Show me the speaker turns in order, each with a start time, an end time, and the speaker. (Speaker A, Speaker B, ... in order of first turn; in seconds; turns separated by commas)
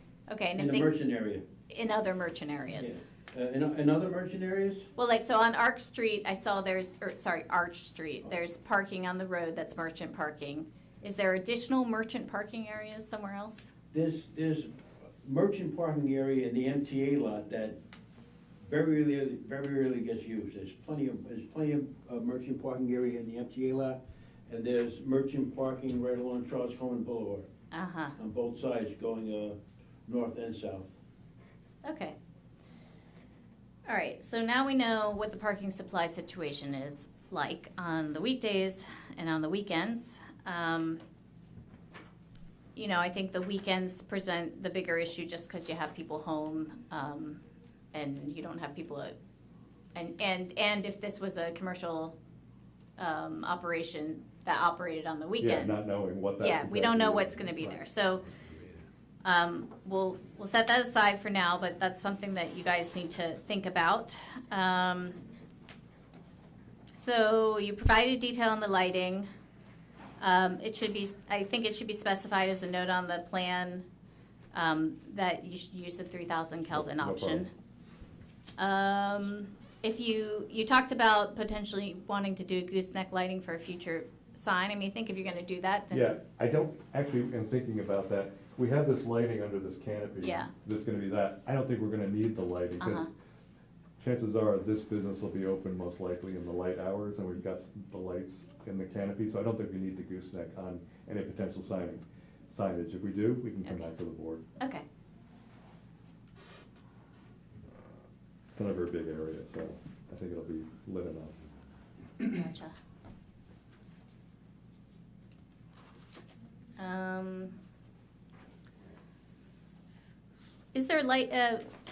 Speaker A: 0.3-0.9, Speaker B: 0.6-1.4, Speaker A: 1.7-3.0, Speaker B: 2.8-4.9, Speaker A: 5.0-13.7, Speaker B: 13.9-14.7, Speaker B: 15.2-17.8, Speaker B: 18.6-27.5, Speaker A: 27.7-28.2, Speaker B: 28.2-31.0, Speaker A: 31.8-32.1, Speaker A: 33.9-41.0, Speaker A: 42.8-47.4, Speaker A: 47.9-49.1, Speaker A: 50.0-52.2, Speaker A: 53.0-55.8, Speaker C: 55.4-57.8, Speaker A: 56.4-58.3, Speaker A: 59.2-65.2, Speaker A: 66.9-69.3, Speaker A: 70.2-73.8, Speaker A: 74.5-77.5, Speaker C: 76.7-77.5, Speaker A: 78.6-86.2, Speaker C: 85.9-93.1, Speaker A: 90.2-90.5, Speaker A: 92.8-93.1, Speaker C: 94.0-104.4, Speaker A: 103.6-103.9, Speaker A: 104.6-104.8, Speaker C: 108.5-111.4, Speaker A: 112.2-112.8, Speaker A: 116.8-117.6, Speaker A: 120.7-121.7